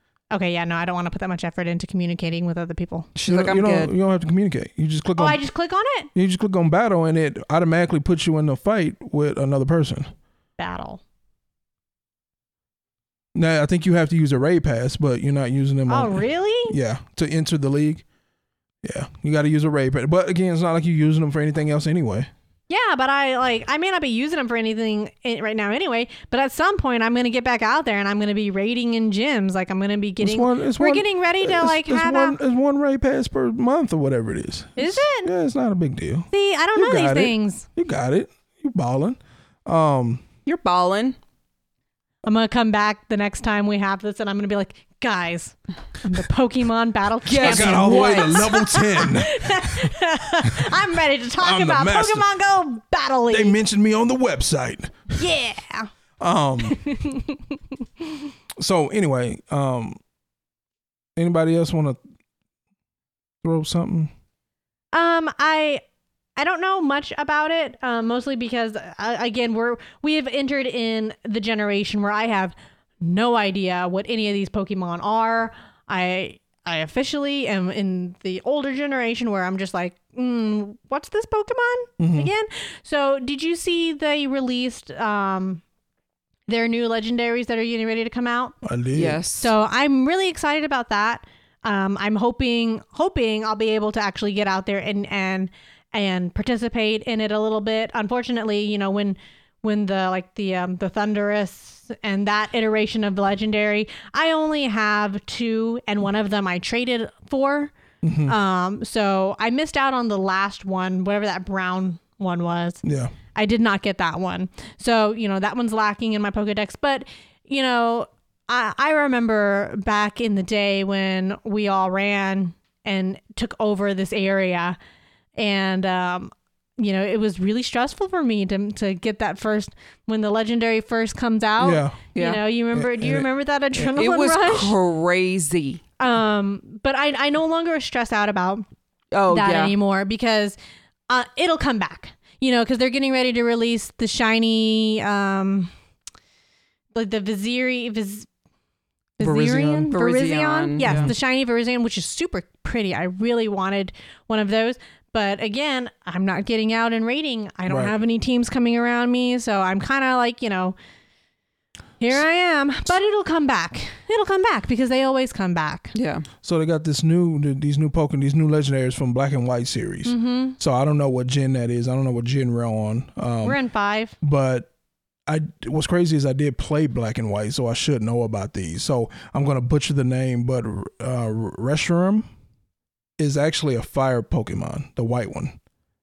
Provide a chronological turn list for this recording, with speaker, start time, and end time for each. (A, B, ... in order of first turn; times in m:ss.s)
0:00.3-0:03.1 A
0:03.2-0:03.9 B
0:03.2-0:05.4 C
0:05.2-0:06.1 A
0:06.2-0:10.1 C
0:10.6-0:11.0 A
0:13.4-0:18.0 C
0:15.9-0:16.8 A
0:18.8-0:22.3 C
0:22.7-0:32.4 A
0:30.2-0:40.2 C
0:34.8-0:35.3 A
0:36.3-0:37.7 A
0:40.5-0:41.2 B
0:42.2-0:53.6 A
0:47.3-0:48.4 B
0:47.4-0:49.9 C
0:50.4-0:50.8 C
0:51.4-0:52.3 C
0:53.3-0:55.2 C
0:55.2-0:55.9 A
0:56.2-0:56.8 C
0:56.6-0:57.4 A
0:58.6-1:00.0 C
1:01.2-1:02.0 C
1:03.4-1:04.1 C
1:04.9-1:05.8 A
1:06.4-1:25.6 A
1:22.0-1:22.3 C
1:26.5-1:28.6 A
1:28.6-1:29.2 C
1:29.0-1:29.5 B
1:29.4-1:47.7 A
1:48.0-1:48.4 C
1:48.3-1:52.8 A
1:52.8-1:53.1 C
1:53.4-2:04.8 A
2:05.4-2:14.8 A
2:11.6-2:12.0 C
2:12.2-2:12.4 B
2:12.7-2:13.9 C
2:14.0-2:15.8 B
2:16.0-2:18.6 A
2:19.1-2:19.8 B
2:19.3-2:20.6 A
2:21.1-2:25.7 A
2:26.9-2:28.3 A
2:29.2-2:40.8 A
2:29.2-2:29.9 C
2:29.9-2:31.1 B
2:30.8-2:31.2 C
2:37.7-2:38.0 C
2:42.0-2:45.9 A
2:45.9-2:46.3 B
2:46.4-2:53.6 C
2:50.0-2:50.6 A
2:53.4-2:54.1 A
2:54.2-2:54.7 C
2:55.3-3:02.3 C
3:03.2-3:05.6 C